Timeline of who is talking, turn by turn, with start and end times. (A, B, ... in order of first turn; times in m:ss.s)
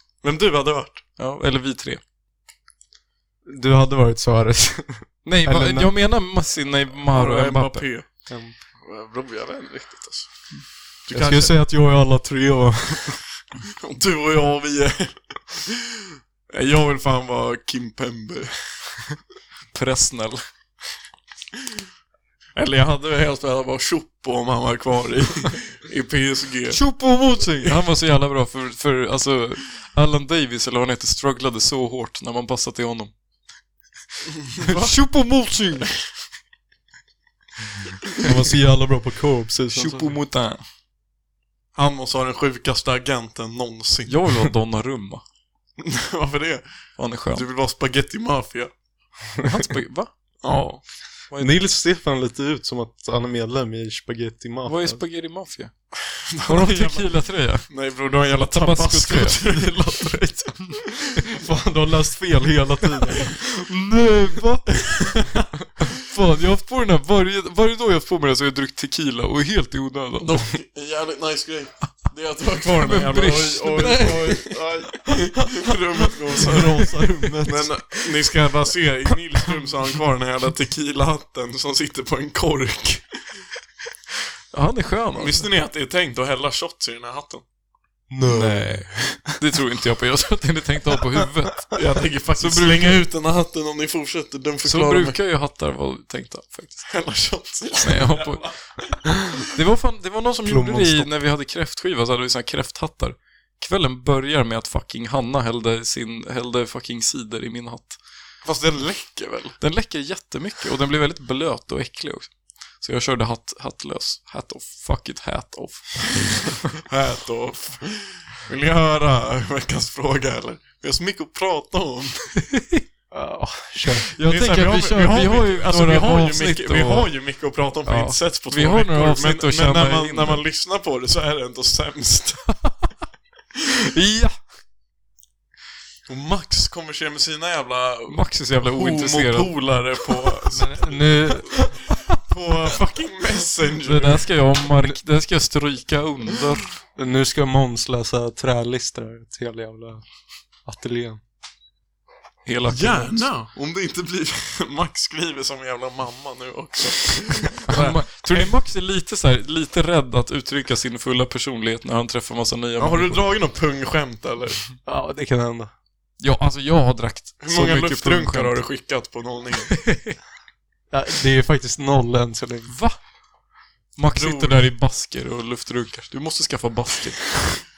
0:00.2-0:01.0 A
0:01.2-0:02.0 B
0:03.5-0:05.9 C
0:05.2-0:07.9 B
0:07.1-0:08.1 A
0:08.3-0:08.6 C
0:08.8-0:10.3 A
0:11.1-0:11.5 A
0:11.1-0:13.2 C
0:13.8-0:19.0 A
0:19.7-0:20.4 B
0:22.6-0:26.8 A
0:26.7-0:33.1 B
0:34.5-0:35.0 A
0:34.6-0:36.0 B
0:38.2-0:40.2 C
0:39.7-0:40.6 B
0:41.8-0:44.2 A
0:44.1-0:45.2 B
0:45.8-0:46.6 A
0:47.0-0:47.5 B
0:47.3-0:48.7 A
0:49.4-0:50.1 B
0:50.4-0:50.8 A
0:51.3-0:51.6 B
0:51.4-0:55.0 C
0:54.6-0:55.7 B
0:56.2-0:57.1 A
0:56.4-0:57.7 B
0:57.7-1:00.1 A
0:58.5-1:00.8 B
1:01.2-1:03.3 C
1:03.2-1:05.0 B
1:04.9-1:05.2 A
1:05.9-1:10.5 B
1:10.2-1:23.0 A
1:12.6-1:14.4 B
1:13.6-1:15.5 C
1:16.3-1:18.0 C
1:24.5-1:25.5 B
1:25.2-1:27.4 A
1:28.1-1:29.4 C
1:28.3-1:31.7 B
1:31.7-1:35.2 A
1:32.4-1:33.0 B
1:34.6-1:36.9 B
1:36.9-1:38.6 A
1:37.8-1:38.5 B
1:39.5-1:48.0 B
1:40.5-1:41.1 C
1:48.4-1:49.6 A
1:49.6-1:56.4 B
1:56.8-2:02.3 A
2:02.4-2:02.8 B
2:03.1-2:04.1 C
2:04.1-2:07.1 B
2:04.2-2:12.6 A
2:07.9-2:10.4 B
2:13.8-2:14.4 B
2:16.1-2:24.3 A
2:18.1-2:19.5 B
2:20.5-2:21.7 C
2:23.8-2:26.7 B
2:27.0-2:30.0 C
2:30.6-2:31.2 C
2:32.4-2:33.3 B
2:32.7-2:38.5 A
2:37.7-2:43.2 B
2:42.8-2:44.6 A
2:44.9-2:45.7 C
2:46.2-2:48.6 B
2:47.4-2:49.8 A
2:49.7-2:50.2 B
2:50.9-2:52.7 C
2:52.7-2:53.0 B
2:54.0-2:57.6 B
2:54.2-2:54.6 A